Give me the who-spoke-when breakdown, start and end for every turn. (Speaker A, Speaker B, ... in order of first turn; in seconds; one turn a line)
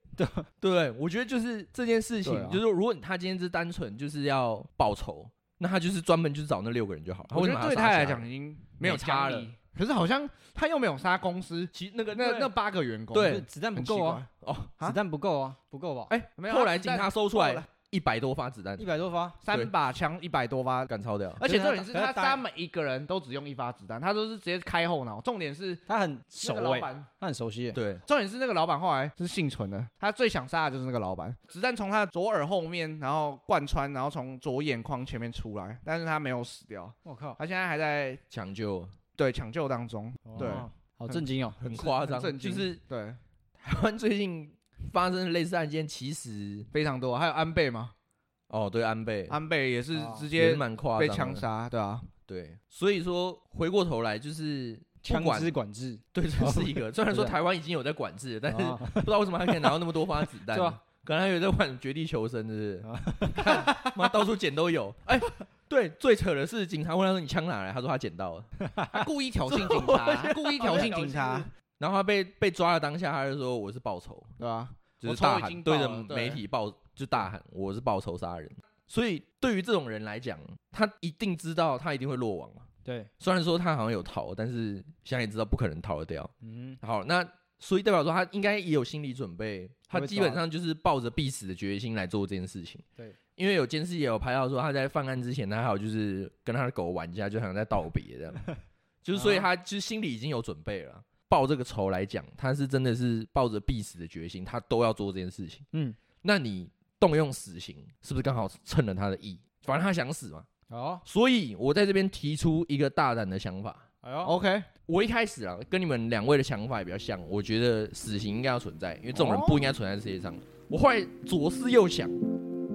Speaker A: 0.2-0.5
Speaker B: 0.6-8.3
Speaker C: 2.2-2.6
Speaker C: 7.3-15.0
Speaker B: 8.8-9.5
Speaker B: 11.7-12.5
Speaker B: 13.1-13.5
Speaker A: 13.2-14.2
Speaker B: 14.4-14.8
Speaker A: 14.8-16.1
Speaker B: 16.1-18.9
Speaker C: 16.4-17.7
Speaker A: 18.8-19.4
Speaker C: 19.4-25.8
Speaker B: 20.9-21.4
Speaker A: 21.4-22.4
Speaker A: 25.9-27.8
Speaker C: 26.4-27.1
Speaker B: 27.8-28.0
Speaker C: 28.1-38.2
Speaker A: 37.0-37.4
Speaker B: 38.3-39.0
Speaker C: 39.2-41.2
Speaker A: 40.3-41.6
Speaker B: 41.6-42.8
Speaker C: 41.7-43.2
Speaker B: 43.6-46.7
Speaker C: 46.7-47.9
Speaker B: 48.5-49.4
Speaker C: 49.3-52.1
Speaker A: 50.0-50.3
Speaker B: 50.3-51.5
Speaker B: 52.3-55.5
Speaker A: 55.0-57.4
Speaker B: 56.1-68.5
Speaker A: 58.5-59.2
Speaker A: 60.5-60.8
Speaker A: 62.9-63.7
Speaker C: 63.4-64.0
Speaker A: 68.6-69.0
Speaker C: 68.9-71.5
Speaker B: 69.5-74.3
Speaker A: 70.6-71.1
Speaker C: 74.4-76.4
Speaker B: 75.0-82.7
Speaker A: 82.8-83.1
Speaker B: 83.2-92.8
Speaker A: 86.4-86.8
Speaker A: 89.9-90.4
Speaker B: 93.4-98.5
Speaker B: 99.0-105.6
Speaker A: 99.2-99.5
Speaker B: 106.2-110.5
Speaker A: 110.7-111.0
Speaker B: 111.0-113.9
Speaker A: 114.0-114.4
Speaker C: 114.2-114.7
Speaker B: 114.9-122.2
Speaker C: 119.2-119.7